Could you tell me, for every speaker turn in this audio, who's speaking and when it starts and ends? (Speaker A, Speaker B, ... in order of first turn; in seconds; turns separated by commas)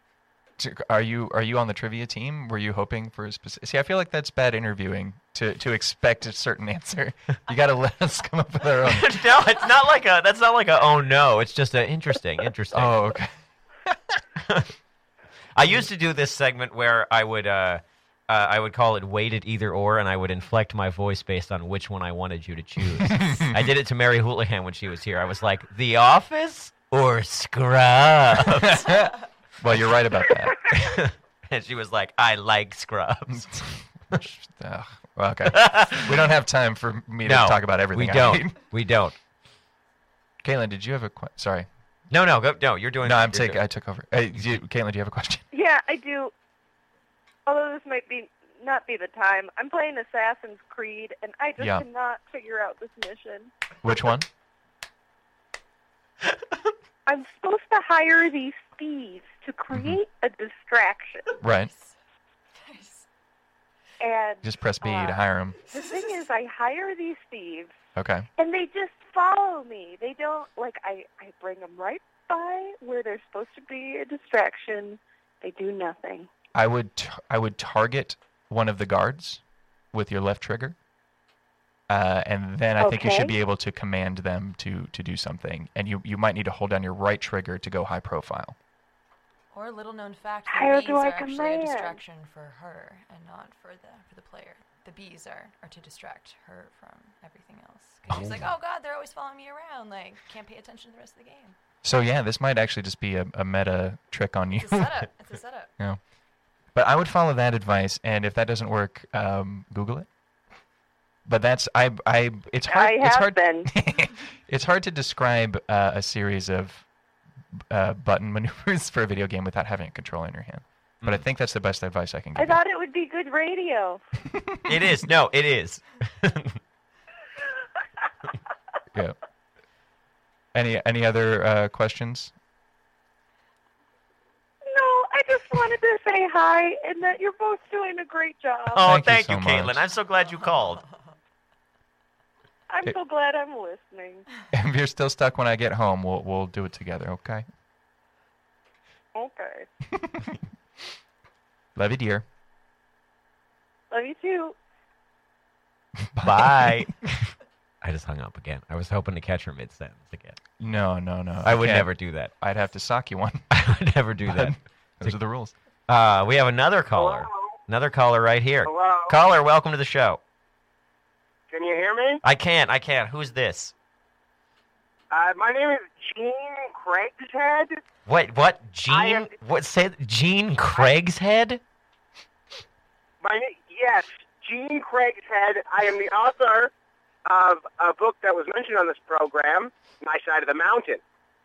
Speaker A: 0.6-9.2, Speaker B: 8.8-13.0, Speaker A: 12.7-13.3, Speaker B: 14.4-14.7, Speaker B: 15.6-28.9, Speaker A: 23.0-23.6, Speaker A: 28.4-30.7, Speaker B: 30.7-34.2, Speaker A: 33.3-38.6, Speaker B: 35.5-36.2, Speaker B: 37.2-39.2, Speaker A: 40.4-41.7, Speaker B: 42.1-43.6, Speaker A: 43.0-45.4, Speaker C: 45.5-46.3, Speaker C: 47.5-53.5, Speaker A: 51.6-51.9, Speaker A: 53.8-54.3, Speaker C: 57.1-61.3, Speaker A: 59.7-60.0, Speaker A: 61.4-61.7, Speaker D: 61.5-62.0, Speaker D: 62.6-63.1, Speaker C: 64.0-67.7, Speaker A: 64.4-65.6, Speaker D: 65.7-66.1, Speaker A: 68.0-68.3, Speaker C: 68.4-76.3, Speaker A: 76.5-79.4, Speaker A: 79.9-80.8, Speaker A: 81.9-88.6, Speaker C: 82.8-83.3, Speaker D: 89.5-101.5, Speaker C: 90.5-92.0, Speaker A: 101.8-105.0, Speaker D: 104.6-105.7, Speaker A: 106.8-110.1, Speaker A: 111.3-116.9, Speaker C: 112.7-113.7, Speaker A: 117.7-122.6, Speaker C: 122.4-124.0, Speaker A: 124.3-125.0, Speaker B: 124.7-126.6, Speaker A: 130.5-132.3, Speaker C: 134.7-138.9, Speaker B: 138.7-140.8, Speaker A: 138.8-139.8, Speaker C: 142.7-144.3, Speaker A: 144.5-147.5, Speaker C: 149.2-149.7, Speaker A: 150.0-150.3, Speaker A: 151.8-152.2, Speaker C: 153.9-154.6, Speaker A: 156.1-156.9, Speaker B: 156.2-160.4, Speaker A: 160.6-163.4, Speaker B: 161.4-162.3, Speaker B: 163.5-165.2, Speaker A: 164.2-165.6, Speaker B: 165.9-170.2, Speaker E: 166.9-167.6, Speaker E: 168.7-169.2, Speaker E: 171.5-172.2, Speaker B: 172.2-173.7, Speaker E: 175.1-177.8, Speaker B: 178.1-181.6, Speaker E: 178.9-179.3, Speaker E: 183.2-186.7, Speaker E: 187.3-191.0